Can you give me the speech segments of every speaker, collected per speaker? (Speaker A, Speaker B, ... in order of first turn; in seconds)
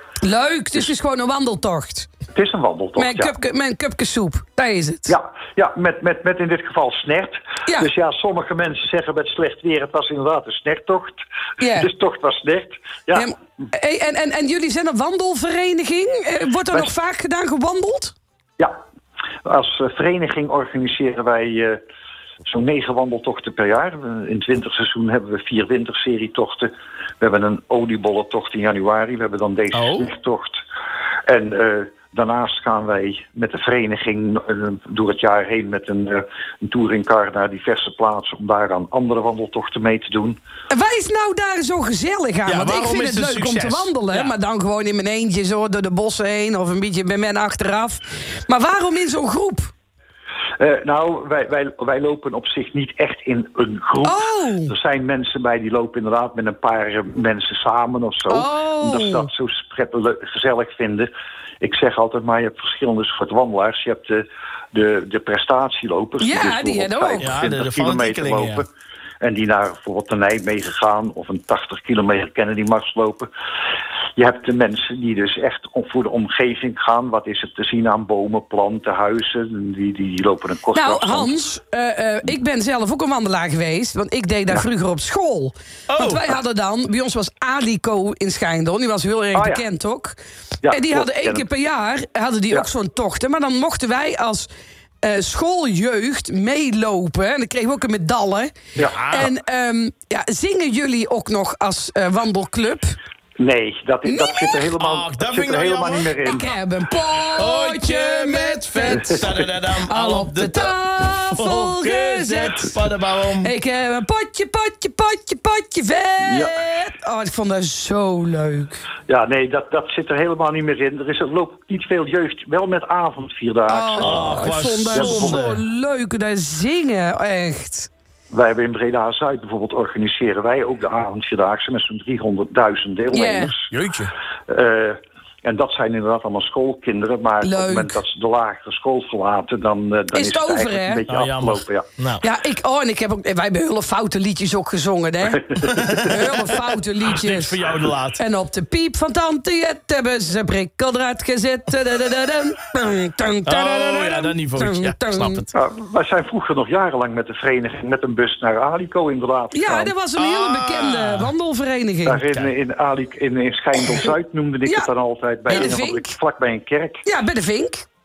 Speaker A: 0.2-2.1, 3.0-5.1, 11.6-11.9, 13.1-18.1, 40.7-49.7, 54.0-54.7, 58.3-59.3, 66.2-67.4, 80.7-94.5, 95.0-98.5, 99.1-102.9, 104.0-104.6, 106.2-109.1, 109.9-112.7, 113.4-118.8, 123.7-127.9, 133.1-133.5, 137.4-138.0, 140.1-141.1, 142.2-147.6, 148.2-155.4, 159.5-162.2, 164.6-164.9, 165.4-166.2, 167.0-167.8
Speaker B: 2.3-3.3, 5.1-11.2, 11.7-13.3, 19.4-21.8, 22.4-30.6, 31.3-40.4, 50.6-61.1, 61.6-68.7, 69.2-73.3, 74.2-81.3, 89.3-89.6, 90.6-91.5, 103.4-106.5, 116.2-116.6, 119.1-125.4, 128.3-133.7, 134.5-141.8, 155.5-159.9, 162.0-167.0
Speaker C: 29.7-30.1, 42.5-44.3, 67.2-68.6, 85.9-86.3, 98.9-99.3, 104.8-106.5, 107.3-113.5, 124.0-125.6, 141.1-142.2, 147.1-148.2, 153.4-155.5, 160.2-161.3